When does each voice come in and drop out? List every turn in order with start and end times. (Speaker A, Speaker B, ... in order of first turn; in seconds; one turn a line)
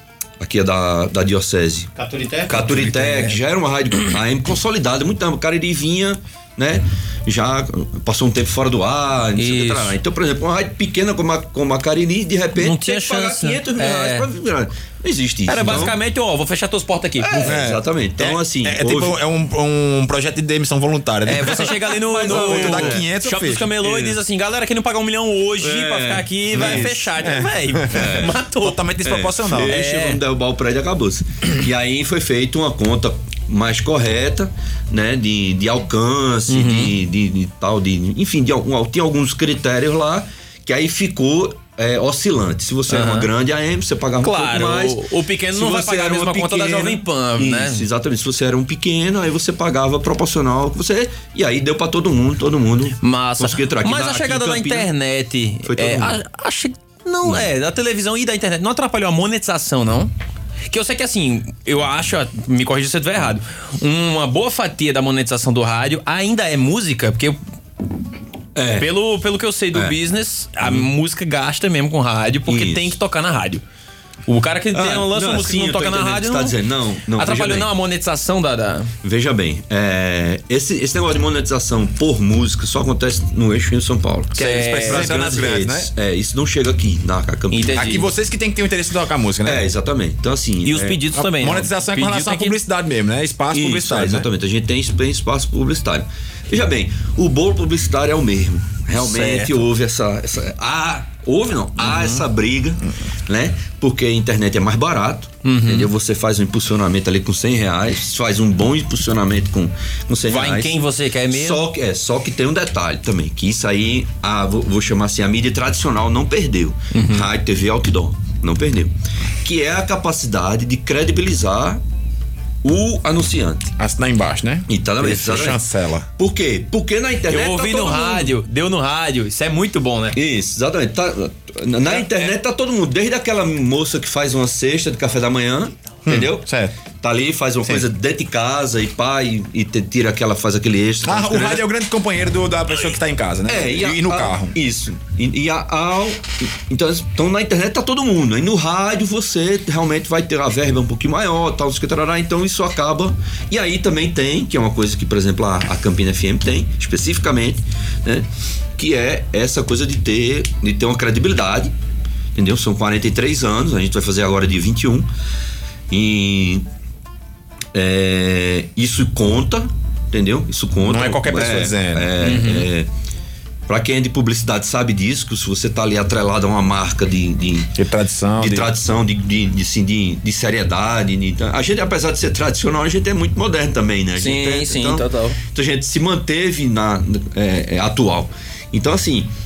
Speaker A: 0.4-1.9
Speaker B: 2.5-3.4
Speaker A: 2.5-16.0
Speaker B: 9.4-10.0
Speaker B: 12.6-14.3
Speaker B: 15.5-17.6
Speaker A: 17.2-19.2
Speaker C: 17.4-23.7
Speaker B: 21.3-28.9
Speaker A: 21.9-23.0
Speaker A: 23.8-24.2
Speaker A: 25.6-27.1
Speaker C: 26.8-29.8
Speaker A: 27.9-28.3
Speaker A: 29.1-54.9
Speaker B: 29.6-30.2
Speaker B: 36.5-36.9
Speaker B: 42.9-43.3
Speaker B: 44.2-47.9
Speaker B: 53.0-60.1
Speaker A: 55.6-56.2
Speaker B: 60.7-67.4
Speaker A: 68.5-68.9
Speaker B: 68.8-73.6
Speaker A: 70.6-70.9
Speaker A: 72.5-73.0
Speaker B: 74.3-76.5
Speaker A: 74.7-77.7
Speaker B: 77.2-78.9
Speaker A: 79.0-88.0
Speaker B: 84.4-85.2
Speaker C: 84.4-85.9
Speaker B: 87.5-88.1
Speaker C: 87.8-89.7
Speaker A: 89.4-90.9
Speaker B: 90.7-92.6
Speaker C: 90.8-94.3
Speaker A: 93.5-121.8
Speaker B: 99.0-99.6
Speaker B: 101.8-102.2
Speaker B: 105.4-105.9
Speaker B: 110.3-111.6
Speaker B: 116.9-117.3
Speaker A: 122.6-123.7
Speaker C: 123.8-126.1
Speaker A: 124.7-125.7
Speaker A: 126.2-128.3
Speaker B: 127.3-130.2
Speaker A: 130.2-136.5
Speaker C: 136.1-136.7
Speaker A: 137.0-141.7
Speaker C: 141.0-144.6
Speaker A: 143.5-161.7
Speaker A: 162.3-165.1
Speaker A: 165.9-166.7
Speaker A: 167.7-172.9
Speaker C: 170.8-172.1
Speaker B: 172.2-172.7
Speaker A: 173.7-177.8
Speaker C: 177.8-178.8
Speaker A: 178.4-189.3
Speaker B: 184.2-185.4